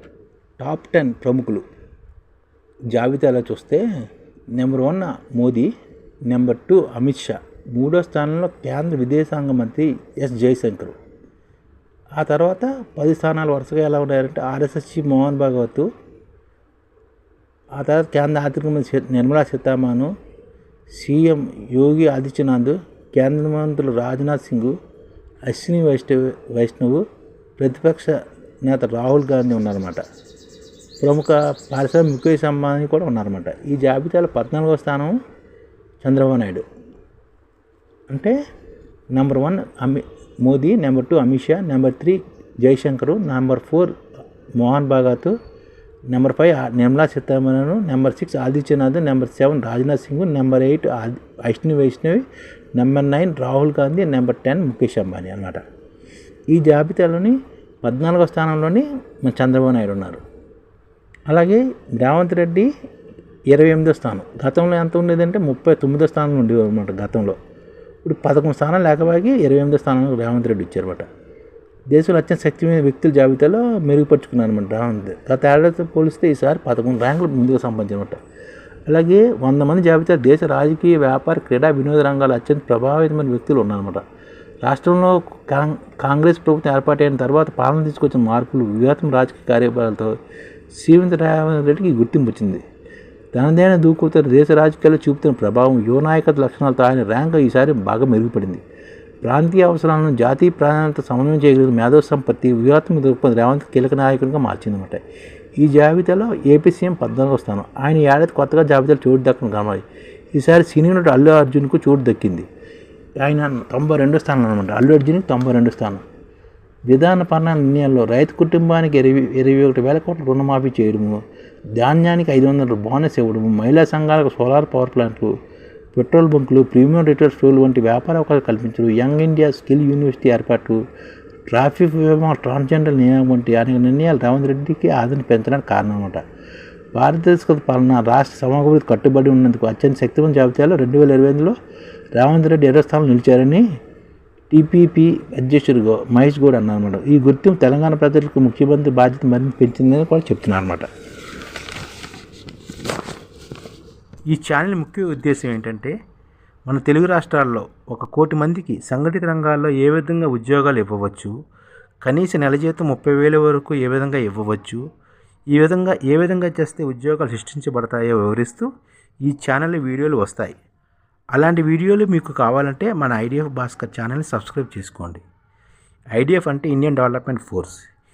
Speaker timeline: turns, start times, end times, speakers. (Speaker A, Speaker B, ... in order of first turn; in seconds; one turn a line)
Speaker A: 0.6-1.6
Speaker A: 2.9-3.8
Speaker A: 4.5-5.7
Speaker A: 6.3-10.9
Speaker A: 12.2-15.9
Speaker A: 17.8-20.1
Speaker A: 20.9-24.7
Speaker A: 25.5-27.0
Speaker A: 27.6-30.0
Speaker A: 31.0-35.1
Speaker A: 36.0-36.6
Speaker A: 38.1-38.3
Speaker A: 39.1-43.9
Speaker A: 44.6-45.3
Speaker A: 46.1-55.6
Speaker A: 56.5-60.2
Speaker A: 61.3-62.7
Speaker A: 63.5-67.3
Speaker A: 68.0-71.0
Speaker A: 71.9-78.2
Speaker A: 78.8-84.0
Speaker A: 84.6-90.1
Speaker A: 90.7-92.6
Speaker A: 93.3-98.6
Speaker A: 99.2-105.0
Speaker A: 105.6-109.8
Speaker A: 110.3-112.5
Speaker A: 113.2-116.0
Speaker A: 116.9-121.2
Speaker A: 121.8-125.3
Speaker A: 125.9-130.8
Speaker A: 131.5-136.2
Speaker A: 136.9-141.6
Speaker A: 142.1-143.6
Speaker A: 144.5-150.9
Speaker A: 154.3-155.9
Speaker A: 156.7-161.3
Speaker A: 162.0-164.8
Speaker A: 165.5-168.7
Speaker A: 169.2-170.6
Speaker A: 171.3-175.2
Speaker A: 176.1-177.9